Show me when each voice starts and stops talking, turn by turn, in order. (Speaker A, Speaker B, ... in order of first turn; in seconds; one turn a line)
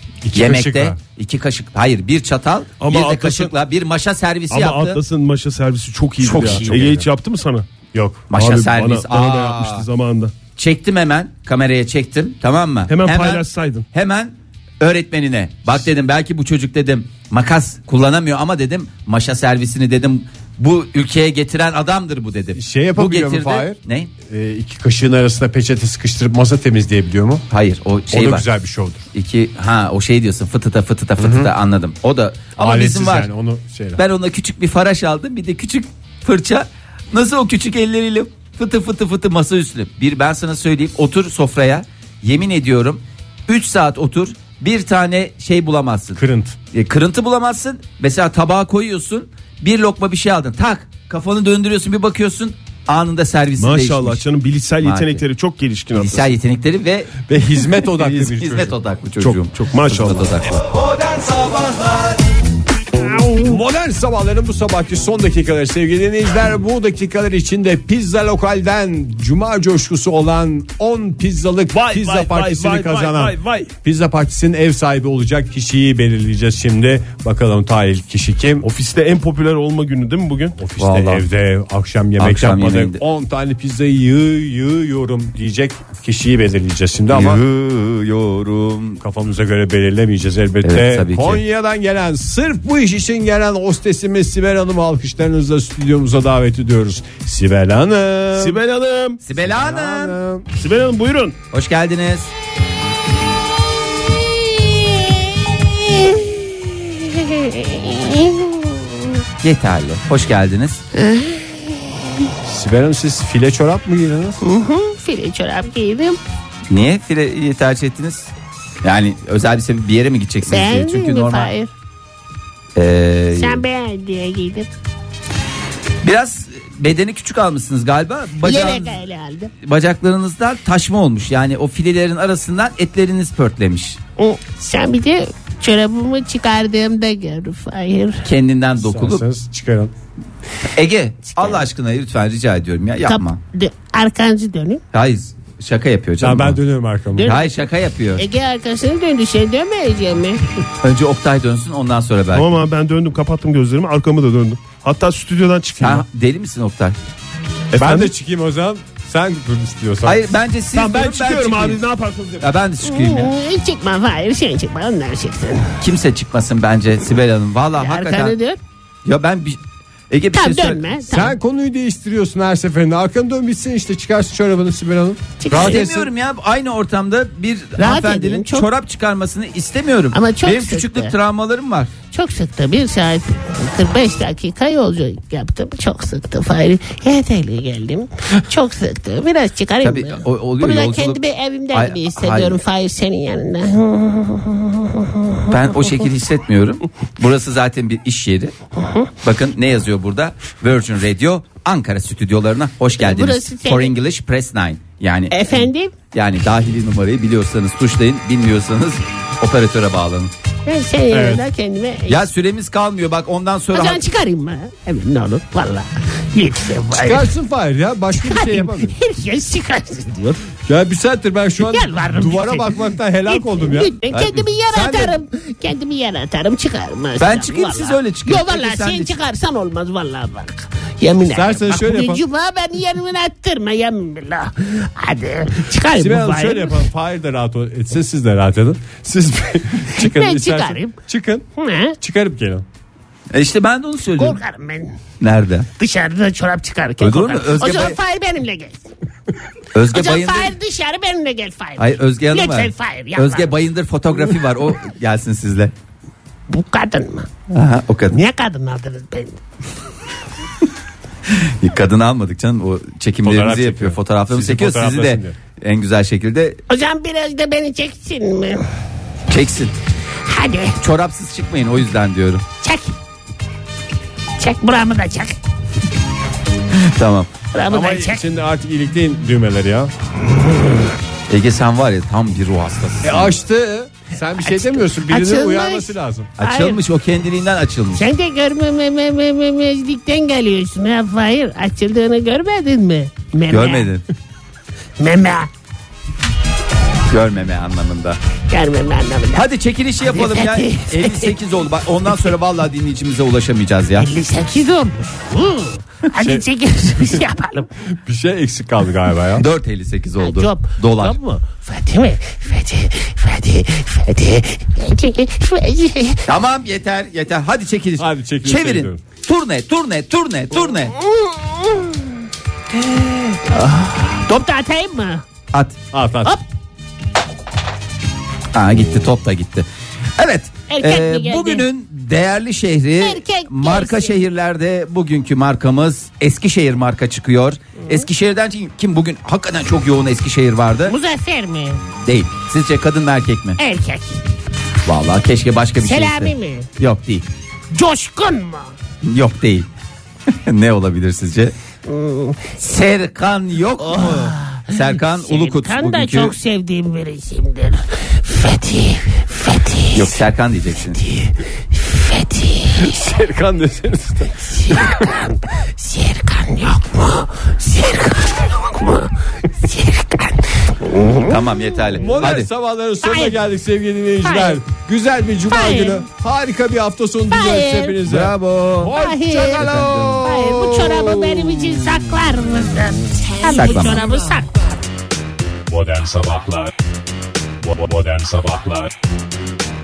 Speaker A: 0.2-1.0
Speaker B: 0.3-5.0
Speaker C: 2.8-3.5
Speaker C: 4.5-7.7
Speaker B: 6.2-7.0
Speaker A: 6.2-7.0
Speaker A: 7.9-8.2
Speaker B: 8.3-9.8
Speaker C: 8.3-10.3
Speaker B: 10.6-24.1
Speaker C: 12.9-13.8
Speaker A: 22.5-27.4
Speaker B: 27.5-28.4
Speaker A: 28.1-29.1
Speaker B: 29.1-33.3
Speaker A: 31.2-31.5
Speaker A: 32.6-34.0
Speaker B: 34.0-46.2
Speaker A: 46.1-46.5
Speaker B: 46.7-54.2
Speaker C: 53.6-56.3
Speaker B: 54.8-55.2
Speaker B: 55.9-57.1
Speaker A: 57.3-58.8
Speaker B: 57.8-60.6
Speaker C: 59.2-60.3
Speaker A: 63.3-78.7
Speaker C: 71.7-73.7
Speaker C: 78.6-80.6
Speaker A: 80.6-87.4
Speaker B: 80.8-81.2
Speaker B: 82.2-83.0
Speaker B: 87.1-89.0
Speaker A: 89.0-98.6
Speaker B: 90.6-91.4
Speaker C: 98.3-99.2
Speaker B: 99.2-100.2
Speaker A: 99.3-100.5
Speaker C: 100.5-101.3
Speaker B: 101.5-102.3
Speaker D: 105.8-109.1
Speaker B: 109.4-110.8
Speaker D: 110.9-112.3
Speaker A: 112.4-114.4
Speaker D: 114.4-116.2
Speaker B: 116.7-118.3
Speaker B: 118.8-121.5
Speaker D: 120.5-121.7
Speaker B: 122.8-123.6
Speaker D: 123.3-124.7
Speaker B: 126.0-129.0
Speaker D: 128.4-129.5
Speaker B: 129.6-134.0
Speaker D: 134.2-138.2
Speaker B: 138.2-139.2
Speaker A: 138.8-139.9
Speaker B: 140.7-143.4
Speaker D: 141.3-141.6
Speaker D: 143.1-144.8
Speaker B: 144.9-146.6
Speaker A: 146.2-147.3
Speaker D: 147.2-150.4
Speaker B: 147.2-148.2
Speaker B: 150.8-152.6
Speaker C: 152.3-156.0
Speaker B: 155.8-156.9
Speaker C: 157.7-158.1
Speaker A: 157.8-160.3
Speaker B: 160.0-161.8
Speaker C: 160.7-162.5
Speaker B: 162.4-163.3
Speaker D: 162.8-165.7
Speaker B: 165.8-168.4
Speaker D: 167.8-168.6
Speaker B: 169.0-170.9
Speaker D: 170.3-171.3
Speaker A: 171.1-176.1
Speaker D: 175.4-175.8
Speaker B: 175.5-181.9
Speaker D: 177.8-178.7
Speaker D: 180.1-181.1
Speaker D: 182.1-195.9
Speaker B: 189.8-191.2
Speaker B: 191.7-192.6
Speaker B: 195.5-198.5
Speaker D: 198.8-199.1
Speaker B: 199.2-210.3
Speaker D: 203.0-203.9
Speaker D: 205.3-205.9
Speaker D: 210.7-212.2
Speaker A: 211.1-211.4
Speaker B: 212.1-214.0
Speaker D: 213.7-217.3
Speaker A: 216.9-218.9
Speaker D: 218.2-220.4
Speaker A: 220.7-223.9
Speaker D: 221.6-222.7
Speaker D: 223.3-236.9
Speaker B: 224.1-225.1
Speaker B: 227.2-229.2
Speaker A: 231.3-232.2
Speaker A: 235.9-241.4
Speaker D: 239.9-240.9
Speaker D: 241.6-241.9
Speaker A: 242.0-242.6
Speaker B: 243.3-244.4
Speaker D: 244.2-244.9
Speaker B: 245.2-245.7
Speaker D: 245.8-248.8
Speaker B: 247.0-248.0
Speaker B: 249.7-250.6
Speaker D: 249.9-253.6
Speaker B: 251.8-255.7
Speaker D: 256.5-257.3
Speaker B: 257.5-258.2
Speaker D: 258.1-259.4
Speaker B: 261.3-266.6
Speaker A: 263.2-265.4
Speaker D: 266.7-268.6
Speaker B: 269.3-269.7
Speaker D: 270.2-270.8
Speaker B: 270.8-272.4
Speaker D: 272.6-272.9
Speaker D: 274.4-275.4
Speaker B: 276.7-277.4
Speaker D: 277.5-278.2
Speaker A: 277.7-279.9
Speaker B: 281.3-283.3
Speaker A: 283.0-286.3
Speaker D: 284.4-286.8
Speaker B: 286.4-288.0
Speaker D: 287.9-293.9
Speaker B: 293.5-294.0
Speaker D: 295.0-295.5
Speaker B: 297.1-298.2
Speaker D: 298.5-299.4
Speaker B: 299.3-304.1
Speaker D: 300.0-301.4
Speaker D: 304.0-307.7
Speaker A: 306.2-306.4
Speaker A: 308.0-309.4
Speaker B: 309.4-311.2
Speaker D: 310.2-316.2
Speaker B: 316.2-320.9
Speaker A: 318.0-319.0
Speaker D: 320.7-322.1
Speaker D: 322.7-325.2
Speaker A: 325.9-326.4
Speaker B: 328.5-341.0
Speaker D: 330.7-331.6
Speaker D: 333.0-334.2
Speaker D: 340.9-341.8
Speaker B: 342.0-343.6
Speaker D: 343.6-344.2
Speaker B: 344.9-347.3
Speaker D: 345.8-346.7
Speaker D: 347.7-348.7
Speaker B: 349.0-349.7
Speaker B: 350.3-351.5
Speaker D: 351.9-352.7
Speaker B: 352.6-356.4
Speaker D: 353.8-360.2
Speaker B: 359.9-361.0
Speaker D: 361.0-362.9
Speaker A: 362.8-365.1
Speaker D: 364.5-371.9
Speaker B: 371.2-372.5
Speaker A: 372.0-381.8
Speaker D: 373.0-373.4
Speaker D: 374.2-374.6
Speaker D: 375.5-376.0
Speaker D: 377.3-378.0
Speaker B: 378.1-378.9
Speaker D: 378.9-384.6
Speaker B: 379.4-380.2
Speaker B: 383.4-384.1
Speaker E: 385.7-386.7
Speaker E: 387.6-388.9